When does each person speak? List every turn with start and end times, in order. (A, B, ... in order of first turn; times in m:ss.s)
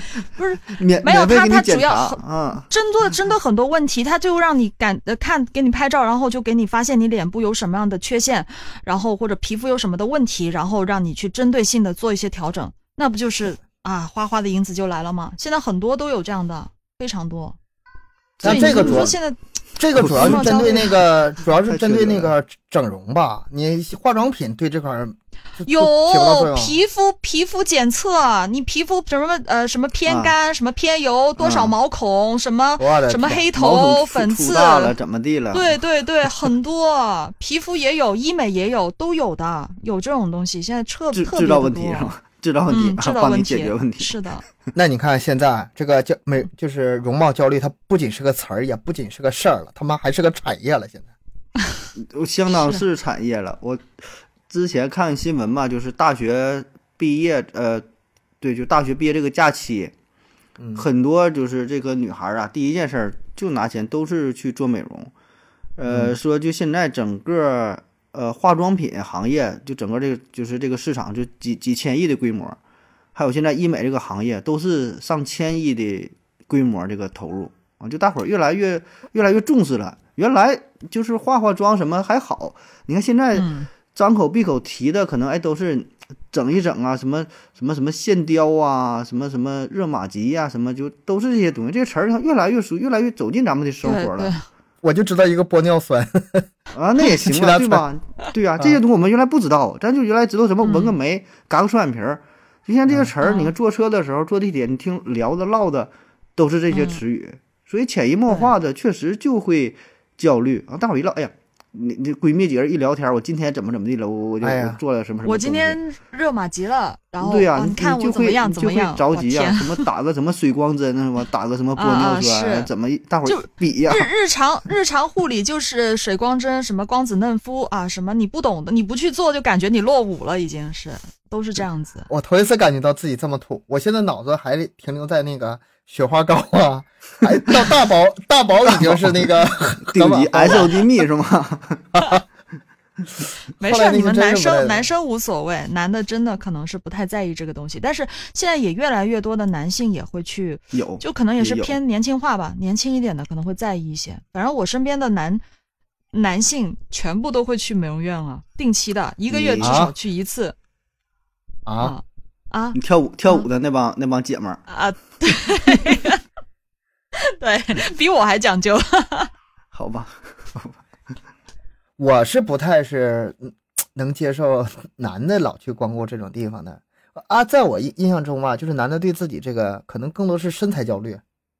0:00.3-0:17.6 A
0:00.7-0:02.7 B
0:18.4-0:19.1 B
0:18.4-0:19.2 C
0:18.4-0:19.4 A
0:19.8-0:26.8 C
0:19.9-0:20.8 B
0:20.0-0:21.0 A
0:21.6-0:22.3 B
0:25.6-0:34.9 A
0:30.1-0:30.3 B
0:31.4-0:31.7 B
0:32.8-0:33.5 C
0:33.5-0:35.8 B
0:35.5-0:42.1 A
0:41.1-0:44.2 B
0:42.7-0:44.4 A
0:44.7-0:51.1 C
0:52.0-0:57.8 B
0:58.4-0:59.9 B
1:00.6-1:00.9 C
1:00.8-1:05.1 B
1:05.8-1:12.6 B
1:05.9-1:06.1 C
1:13.1-1:34.3 B
1:23.3-1:23.7 A
1:33.8-1:34.4 A
1:34.8-1:36.5 C
1:36.7-1:55.8 B
1:37.2-1:37.8 C
1:40.6-1:41.0 A
1:43.2-1:43.5 A
1:46.7-1:47.0 A
1:54.4-1:54.8 C
1:55.2-1:59.8 A
1:57.2-2:04.1 B
2:01.8-2:02.7 A
2:03.2-2:12.1 A
2:12.1-2:20.9 C
2:18.6-2:19.3 B
2:19.8-2:22.0 B
2:21.9-2:22.2 C
2:23.6-2:35.4 A
2:23.6-2:24.9 C
2:30.7-2:31.8 B
2:36.1-2:40.5 A
2:39.3-2:39.8 B
2:39.6-2:39.9 C
2:41.6-2:42.0 C
2:41.8-2:43.5 A
2:42.7-2:44.6 B
2:44.7-2:46.2 A
2:47.2-2:49.3 A
2:49.7-2:50.8 B
2:52.0-3:01.2 C